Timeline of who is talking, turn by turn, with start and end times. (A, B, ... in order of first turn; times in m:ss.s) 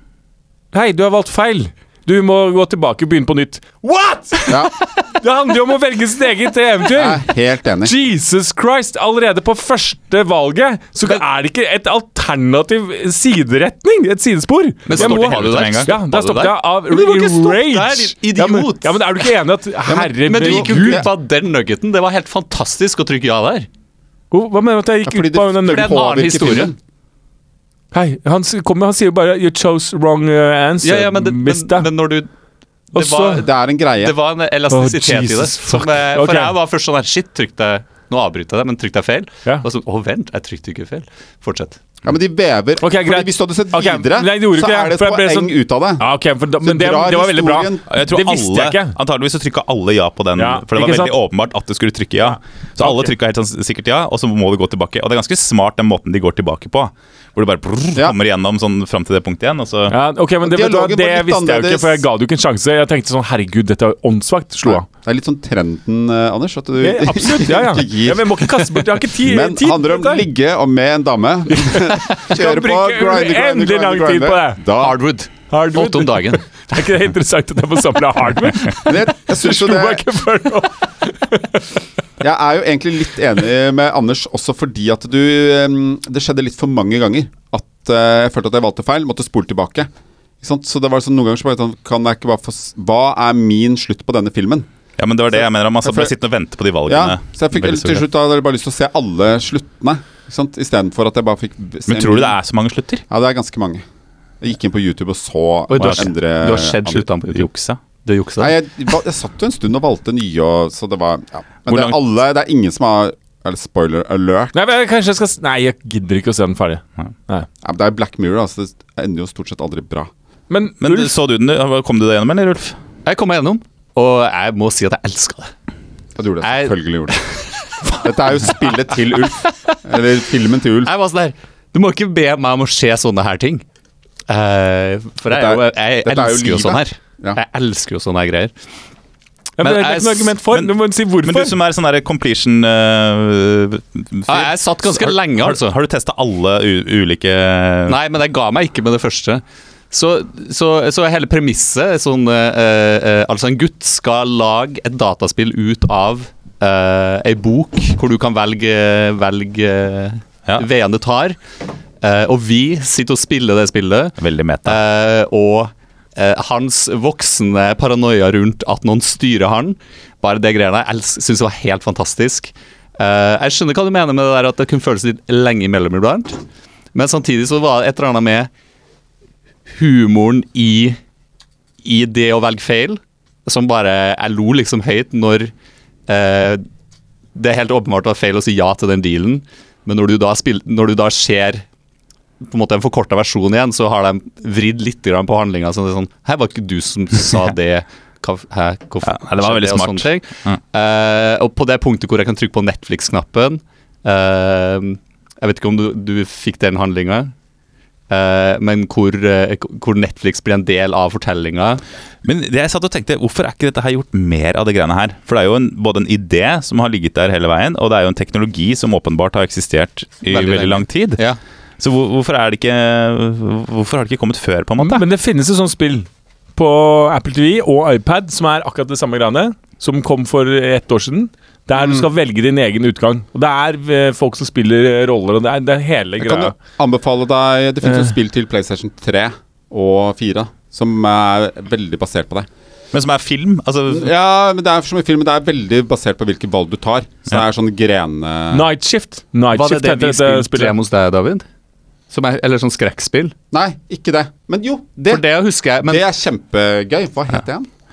0:00.7-0:07.2 A
0:04.5-0:04.7 B
0:06.9-0:07.9 B
0:07.8-0:21.1 A
0:14.9-0:19.0 C
0:14.9-0:15.9 D
0:19.8-0:21.1 B
0:20.2-0:23.7 C
0:24.3-0:26.0 A
0:25.0-0:26.8 B
0:25.6-0:26.7 C
0:27.9-0:31.9 A
0:30.8-0:32.3 C
0:32.9-0:33.4 A
0:32.9-0:33.5 C
0:33.3-0:34.1 B
0:34.0-0:41.8 C
0:34.7-0:36.6 A
0:42.0-0:46.1 B
0:42.8-0:49.0 A
0:46.6-0:47.8 B
0:47.9-0:59.9 D
0:50.4-0:51.1 A
0:52.3-0:53.1 A
0:59.9-1:04.8 A
1:00.4-1:02.0 B
1:04.6-1:15.0 B
1:06.8-1:10.2 A
1:11.5-1:14.8 A
1:14.7-1:16.4 C
1:15.5-1:21.6 A
1:18.8-1:20.0 B
1:22.2-1:29.9 B
1:30.4-1:34.7 B
1:35.0-1:38.0 D
1:35.3-1:36.1 B
1:36.9-1:42.4 B
1:41.9-1:43.0 D
1:43.1-1:43.8 B
1:44.4-1:47.0 B
1:45.7-1:47.5 C
1:45.8-1:46.0 D
1:46.9-1:47.8 D
1:48.0-1:48.5 C
1:48.4-1:54.5 B
1:51.7-1:52.0 D
1:54.5-1:57.5 A
1:57.6-2:00.1 B
2:00.5-2:01.1 A
2:00.8-2:02.8 D
2:03.0-2:05.5 C
2:06.2-2:07.2 B
2:06.4-2:07.2 C
2:07.8-2:08.5 C
2:07.9-2:10.9 B
2:10.8-2:13.6 C
2:14.3-2:18.5 C
2:15.3-2:17.4 B
2:19.6-2:21.6 A
2:19.6-2:20.3 C
2:20.5-2:28.0 D
2:24.3-2:25.7 C
2:27.9-2:41.4 C
2:42.0-2:56.4 C
2:44.2-2:44.8 D
2:56.9-2:58.5 C
2:59.7-3:01.0 C
3:01.8-3:05.5 C
3:06.1-3:06.6 C
3:07.3-3:11.6 C
3:12.4-3:27.3 C
3:19.0-3:20.6 D
3:28.1-3:31.8 C
3:32.2-3:41.2 D
3:40.3-3:41.4 C
3:41.8-3:45.0 D
3:44.8-3:56.5 A
3:51.7-3:52.0 B
3:56.2-4:02.5 B
3:57.8-3:58.1 A
4:02.9-4:04.1 D
4:03.9-4:08.7 B
4:08.5-4:10.7 A
4:09.5-4:11.4 C
4:12.1-4:13.3 C
4:13.5-4:15.2 B
4:15.1-4:16.0 C
4:15.8-4:17.7 B